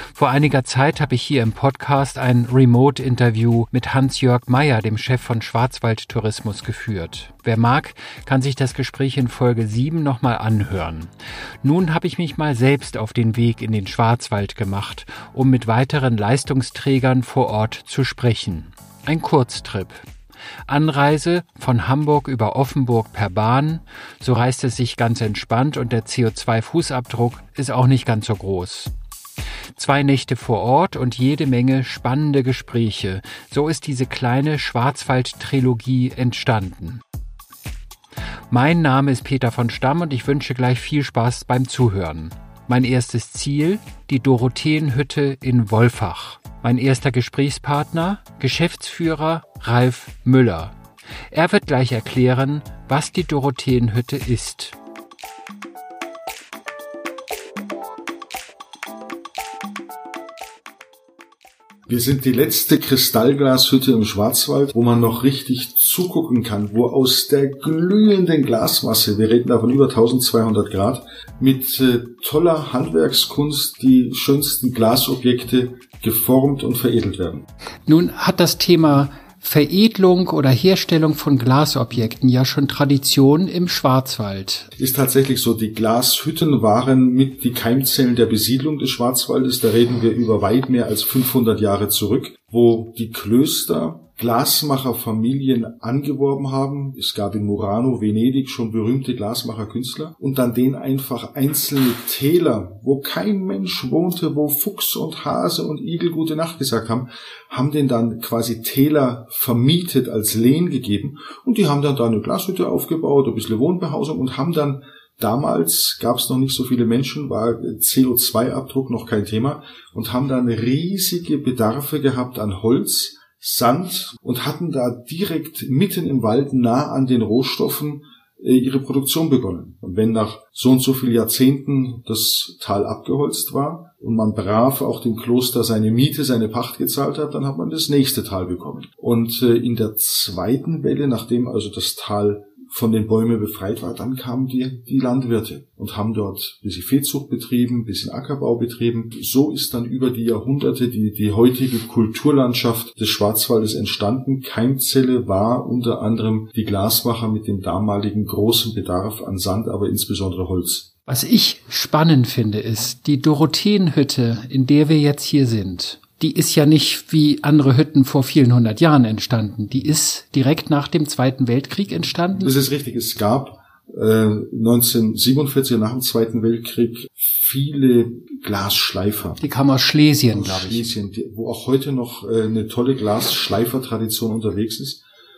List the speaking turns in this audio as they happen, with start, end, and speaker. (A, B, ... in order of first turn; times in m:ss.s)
0:00.2-0:11.1 A
0:11.6-0:20.0 A
0:20.7-0:28.9 A
0:29.8-0:37.0 A
0:38.5-0:50.8 A
0:51.3-0:54.8 A
1:01.9-1:17.5 B
1:17.9-1:24.7 A
1:24.8-2:40.9 B
2:41.1-2:52.6 A
2:52.4-2:59.4 B
2:59.4-3:00.9 A
3:00.3-3:05.0 B